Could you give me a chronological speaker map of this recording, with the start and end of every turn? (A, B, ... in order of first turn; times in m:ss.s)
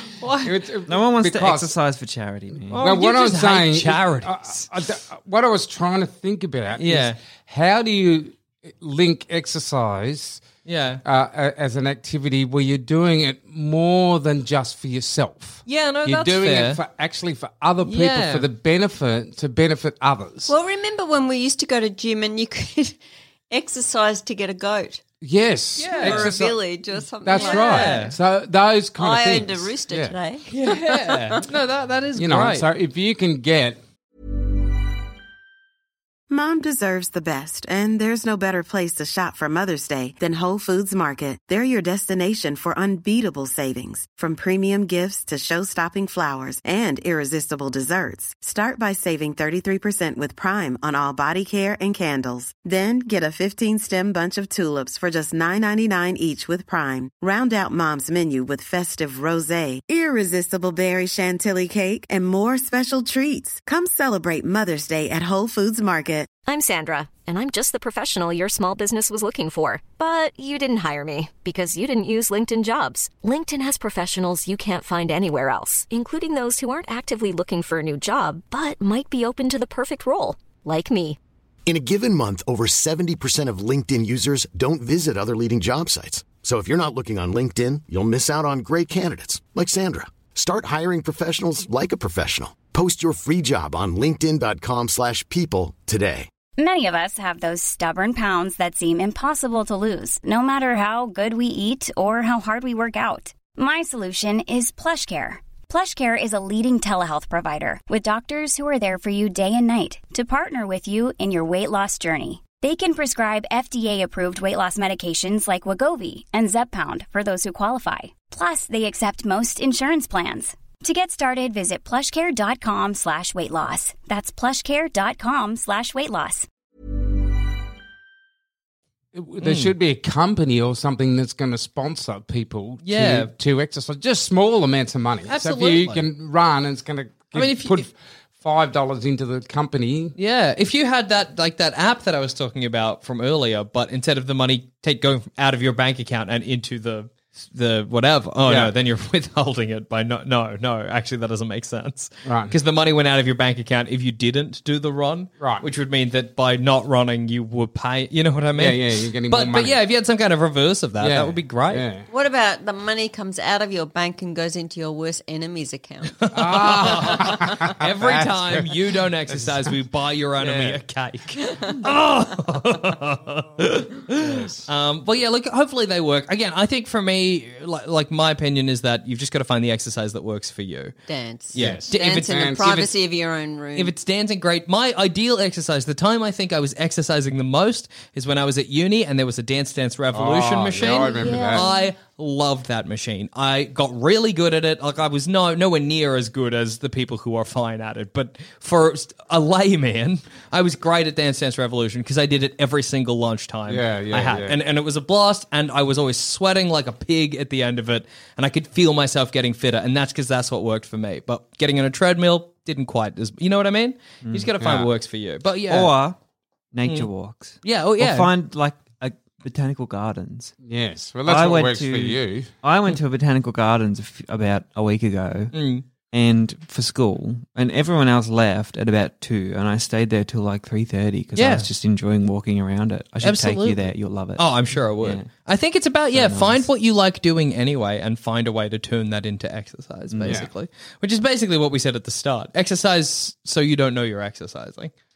0:00.2-0:00.6 A
0:00.4-0:01.8 B
0:00.9-0:02.8 C
0:02.7-0:04.7 A
0:02.8-0:10.4 B
0:06.8-0:07.2 A
0:10.6-0:11.0 A
0:11.0-0:20.5 B
0:15.7-0:16.8 A
0:17.8-0:18.5 A
0:20.5-0:23.0 D
0:23.5-0:25.0 D
0:25.2-0:26.6 B
0:25.8-0:26.4 A
0:26.0-0:28.1 D
0:27.1-0:30.2 B
0:27.3-0:28.2 A
0:29.0-0:31.4 D
0:30.5-0:32.7 A
0:32.2-0:33.8 B
0:36.3-1:06.3 E
1:06.5-1:21.2 F
1:21.7-1:36.3 G
1:36.6-2:06.5 H
2:09.1-2:20.2 B
2:09.4-2:09.7 A
2:12.8-2:13.3 A
2:15.3-2:16.1 A
2:17.3-2:17.9 A
2:20.2-2:41.8 A
2:28.4-2:28.7 B
2:32.2-2:32.6 B
2:35.4-2:35.7 B
2:38.6-2:39.8 B
2:41.0-2:42.1 B
2:42.1-2:46.1 D
2:46.2-3:00.9 A
2:46.3-2:48.8 B
2:49.3-2:49.7 B
2:50.4-2:50.8 B
2:54.1-2:54.7 B
3:01.1-3:03.9 D
3:01.5-3:02.6 A
3:01.6-3:02.9 B
3:03.8-3:35.9 A
3:10.1-3:11.7 B
3:11.1-3:11.9 D
3:23.7-3:24.6 B
3:34.2-3:34.5 C
3:34.6-3:34.9 B
3:35.7-3:36.2 C
3:36.7-3:40.5 C
3:37.6-3:38.3 A
3:40.6-3:42.5 B
3:41.3-3:45.5 C
3:45.5-3:45.8 A
3:46.1-3:55.3 C
3:51.4-3:51.7 A
3:53.2-4:04.9 A
3:56.1-3:56.7 C
4:00.1-4:00.4 C